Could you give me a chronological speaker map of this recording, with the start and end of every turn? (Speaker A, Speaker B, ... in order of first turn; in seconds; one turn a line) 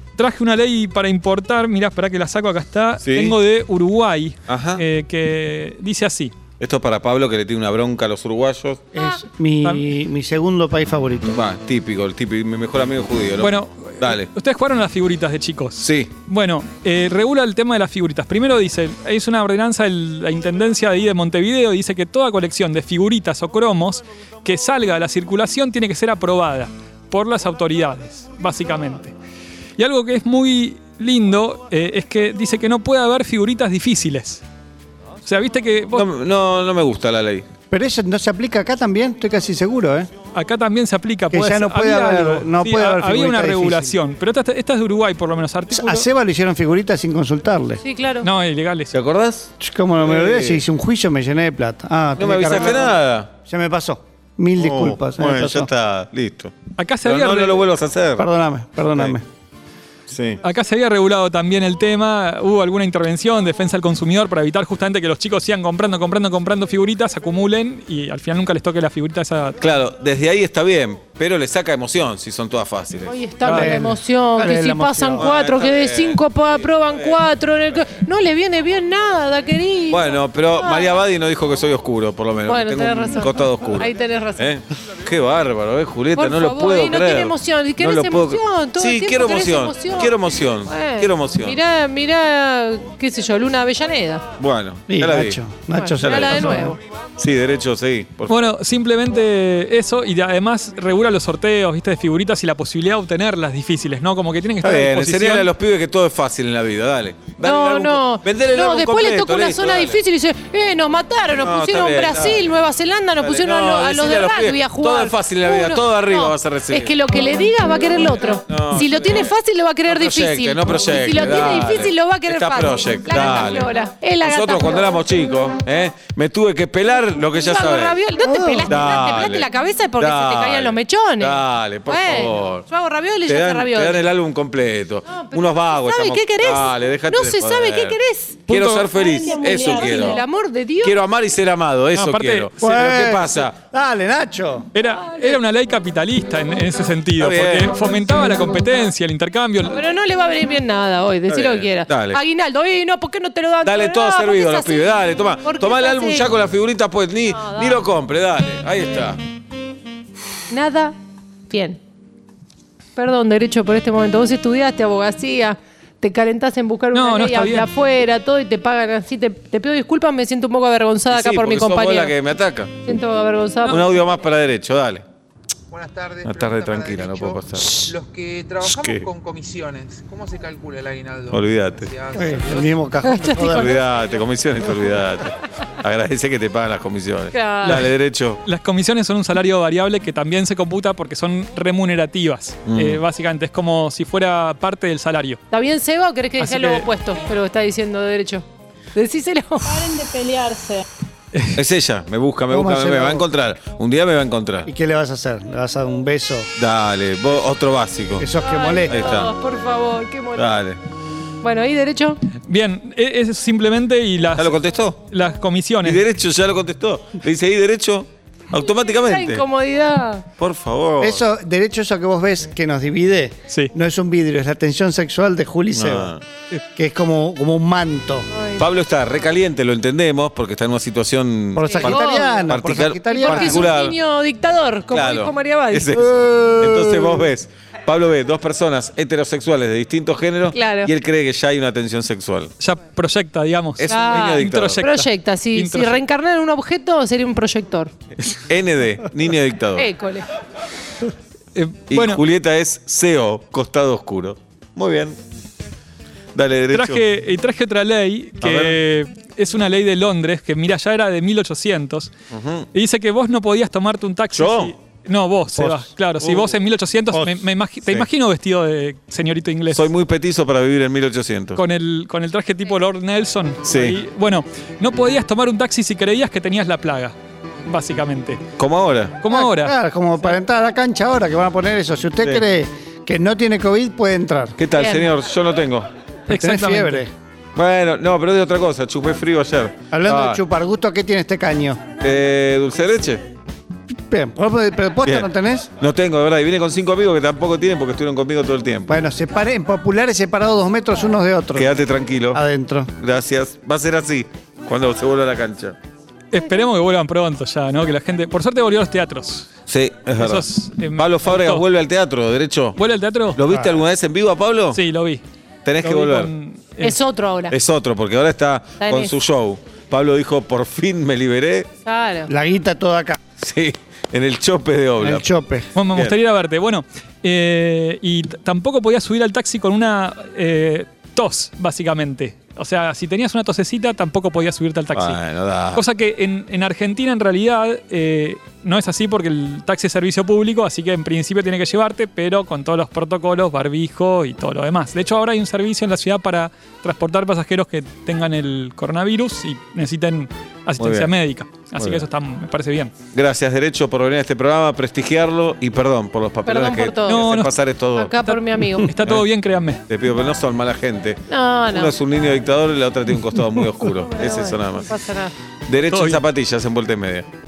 Speaker A: 0.2-6.3
Speaker B: 3.0-3.4
Speaker B: 4.5-4.8
Speaker B: 6.6-8.8
Speaker C: 8.9-11.4
Speaker B: 11.3-14.3
Speaker A: 13.4-29.1
Speaker B: 15.8-16.1
Speaker A: 29.8-34.4
Speaker A: 35.3-36.0
Speaker B: 36.0-37.5
Speaker C: 37.7-40.1
Speaker A: 40.3-46.1
Speaker C: 41.3-44.0
Speaker C: 45.7-47.8
Speaker D: 47.8-48.3
Speaker A: 48.2-48.9
Speaker B: 48.9-50.6
Speaker C: 49.6-55.7
Speaker B: 52.2-53.3
Speaker B: 54.6-58.3
Speaker A: 56.8-57.6
Speaker C: 58.2-59.2
Speaker B: 60.1-60.4
Speaker A: 60.4-69.6
Speaker B: 69.6-73.2
Speaker D: 73.1-80.9
Speaker A: 73.5-73.8
Speaker C: 73.5-75.3
Speaker B: 75.2-77.2
Speaker B: 79.9-91.6
Speaker D: 82.5-84.4
Speaker D: 86.2-94.2
Speaker B: 94.4-95.4
Speaker C: 94.9-96.8
Speaker D: 95.7-96.8
Speaker B: 96.0-98.3
Speaker A: 98.3-105.5
Speaker B: 104.6-110.0
Speaker D: 107.4-125.0
Speaker B: 111.4-112.5
Speaker B: 113.2-117.0
Speaker B: 118.5-119.3
Speaker B: 119.9-128.0
Speaker D: 127.3-134.1
Speaker C: 128.2-128.7
Speaker B: 128.7-132.7
Speaker B: 133.3-140.2
Speaker D: 135.1-141.0
Speaker A: 138.5-138.9
Speaker B: 140.8-143.6
Speaker A: 141.9-142.5
Speaker C: 142.6-144.7
Speaker A: 144.7-149.8
Speaker D: 145.0-145.4
Speaker B: 147.2-147.7
Speaker D: 149.7-156.3
Speaker B: 151.3-152.2
Speaker B: 153.6-159.2
Speaker D: 157.3-157.8
Speaker D: 160.5-160.9
Speaker D: 161.5-161.8
Speaker D: 163.0-172.2
Speaker A: 166.9-167.7
Speaker B: 171.1-172.8
Speaker D: 172.8-173.9
Speaker B: 173.7-175.1
Speaker E: 175.7-183.0
Speaker B: 176.2-178.0
Speaker B: 178.6-179.1
Speaker B: 181.3-181.9
Speaker C: 182.2-183.8
Speaker D: 183.0-183.7
Speaker B: 183.4-188.4
Speaker D: 187.3-187.9
Speaker A: 187.6-187.9
Speaker A: 188.4-195.4
Speaker B: 192.7-193.0
Speaker D: 195.5-200.8
Speaker A: 196.4-196.8
Speaker B: 201.5-204.7
Speaker C: 202.5-203.2
Speaker C: 204.7-206.5
Speaker B: 206.6-208.3
Speaker C: 208.2-209.1
Speaker D: 208.4-210.5
Speaker B: 208.9-209.3
Speaker B: 210.4-210.8
Speaker D: 211.4-212.2
Speaker A: 212.4-214.6
Speaker B: 214.4-215.0
Speaker A: 215.1-216.0
Speaker B: 215.8-219.4
Speaker D: 218.8-220.2
Speaker B: 220.4-221.2
Speaker C: 221.0-226.1
Speaker B: 225.7-226.2
Speaker C: 226.8-228.3
Speaker D: 228.3-228.6
Speaker B: 228.6-233.9
Speaker C: 231.6-233.7
Speaker D: 231.6-235.9
Speaker B: 234.9-242.5
Speaker C: 236.1-237.2
Speaker D: 240.5-240.9
Speaker A: 242.6-246.0
Speaker B: 243.8-244.8
Speaker D: 243.9-247.9
Speaker B: 248.3-249.9
Speaker D: 249.8-250.3
Speaker A: 251.6-252.2
Speaker B: 251.9-255.2
Speaker B: 256.4-257.0
Speaker A: 256.7-262.1
Speaker B: 258.4-258.8
Speaker B: 262.3-262.7
Speaker A: 262.7-269.9
Speaker B: 264.3-264.7
Speaker B: 266.2-266.5
Speaker B: 269.7-271.6
Speaker A: 271.6-278.4
Speaker B: 273.6-274.0
Speaker B: 278.6-279.2
Speaker A: 279.2-279.8
Speaker C: 279.3-284.6
Speaker B: 284.6-285.9
Speaker D: 284.8-285.1
Speaker A: 286.3-287.0
Speaker C: 286.3-287.1
Speaker B: 287.6-290.4
Speaker C: 289.9-291.9
Speaker B: 292.0-293.2
Speaker C: 293.9-295.7
Speaker B: 295.8-298.9
Speaker C: 298.9-301.7
Speaker B: 301.6-302.4
Speaker C: 302.3-302.9
Speaker B: 303.0-305.8
Speaker A: 306.3-309.5
Speaker B: 309.7-312.8
Speaker A: 310.2-311.6
Speaker A: 312.8-313.4
Speaker B: 313.4-314.8
Speaker C: 313.5-313.8
Speaker A: 314.7-315.2
Speaker B: 315.6-316.3
Speaker A: 315.8-317.0
Speaker D: 316.8-317.6
Speaker B: 317.5-321.7
Speaker D: 318.8-319.1
Speaker D: 321.9-322.3
Speaker C: 322.3-323.2
Speaker B: 323.4-325.3
Speaker C: 325.0-325.7
Speaker A: 325.8-335.2
Speaker B: 334.9-335.8
Speaker A: 335.7-352.9
Speaker B: 350.8-351.1
Speaker B: 351.8-352.1
Speaker B: 353.1-358.1
Speaker D: 356.4-357.3
Speaker A: 357.1-357.5
Speaker D: 357.9-358.9
Speaker A: 358.2-359.8
Speaker B: 359.9-365.0
Speaker D: 361.3-361.9
Speaker D: 364.1-365.3
Speaker B: 365.7-367.2
Speaker A: 365.8-366.2